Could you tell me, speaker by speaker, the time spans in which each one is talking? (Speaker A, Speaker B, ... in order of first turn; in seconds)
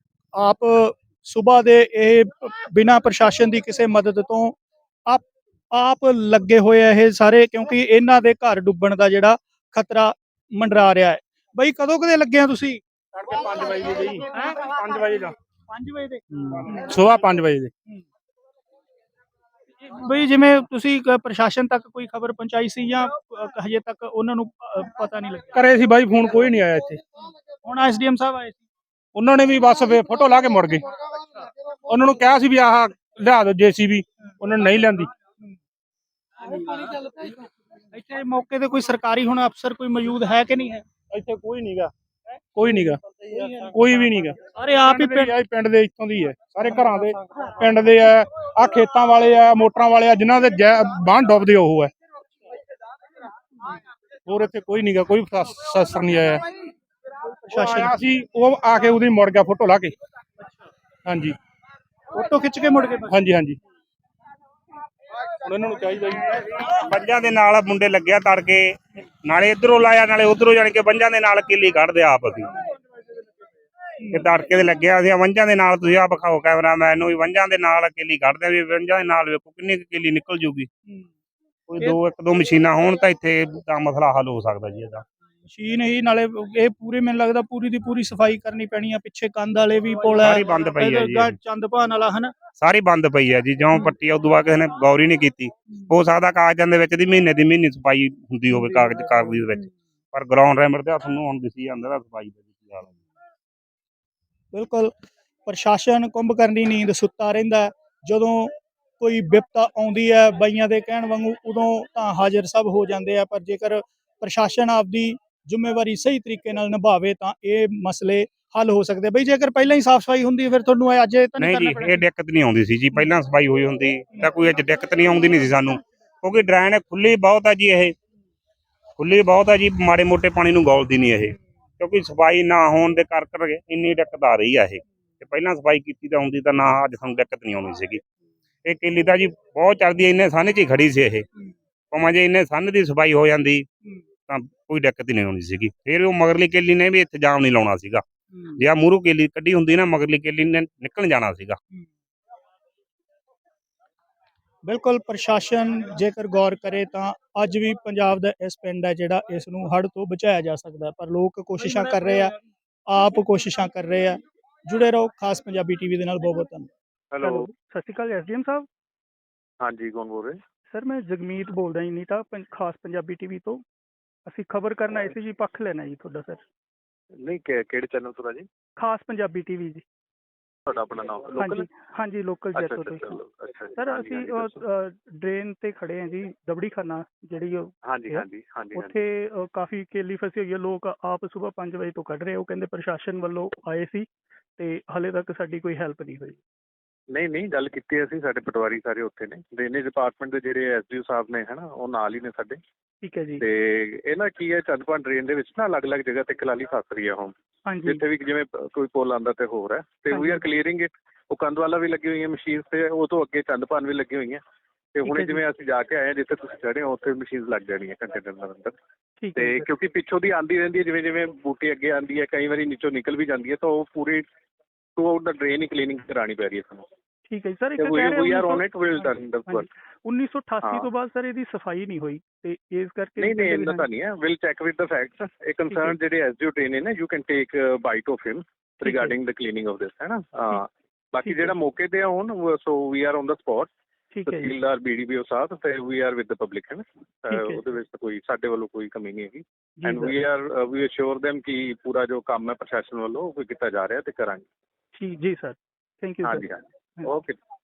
Speaker A: 0.3-12.8, 14.3-14.6, 15.7-17.0, 19.8-25.5, 27.6-28.6, 36.4-37.2, 37.9-40.8, 44.5-45.3, 57.5-57.9, 62.1-63.1, 74.0-74.3, 85.5-92.3, 98.5-99.7, 104.5-104.9, 105.5-122.0, 148.3-148.6, 154.7-162.3, 162.9-166.7
Speaker B: 13.1-15.3, 16.4-17.7, 25.5-27.0, 29.1-30.9, 31.9-35.1, 41.1-41.9, 42.5-51.9, 54.2-56.4, 57.5-59.9, 61.0-61.4, 63.1-63.6, 65.4-66.3
Speaker C: 66.5-68.6, 69.2-72.5, 74.1-80.7, 81.7-85.0, 90.2-91.3, 92.6-102.9, 121.4-127.9, 129.0-138.0, 138.6-141.2, 141.9-143.7, 144.3-148.0, 148.6-151.6
Speaker D: 167.1-167.4, 169.6-170.3, 177.2-178.5, 180.7-181.7, 182.5-184.6, 187.9-188.9, 197.1-202.6, 203.4-207.3, 207.8-214.4, 214.9-218.7, 219.3-224.2, 225.0-226.8, 227.8-229.7, 230.6-230.9, 233.2-243.7, 244.3-254.4, 256.2-257.4
Speaker E: 167.2-168.7, 170.7-173.6, 174.2-176.4, 178.8-179.8, 181.3-183.2, 183.8-194.1, 194.6-196.4, 203.0-203.4, 207.7-208.0, 210.1-210.4, 215.0-215.4, 219.2-219.7, 227.3-233.9, 235.7-235.9, 238.8-239.2, 241.2-241.5, 244.1-244.5, 247.3-247.6, 249.8-250.2, 254.9-256.4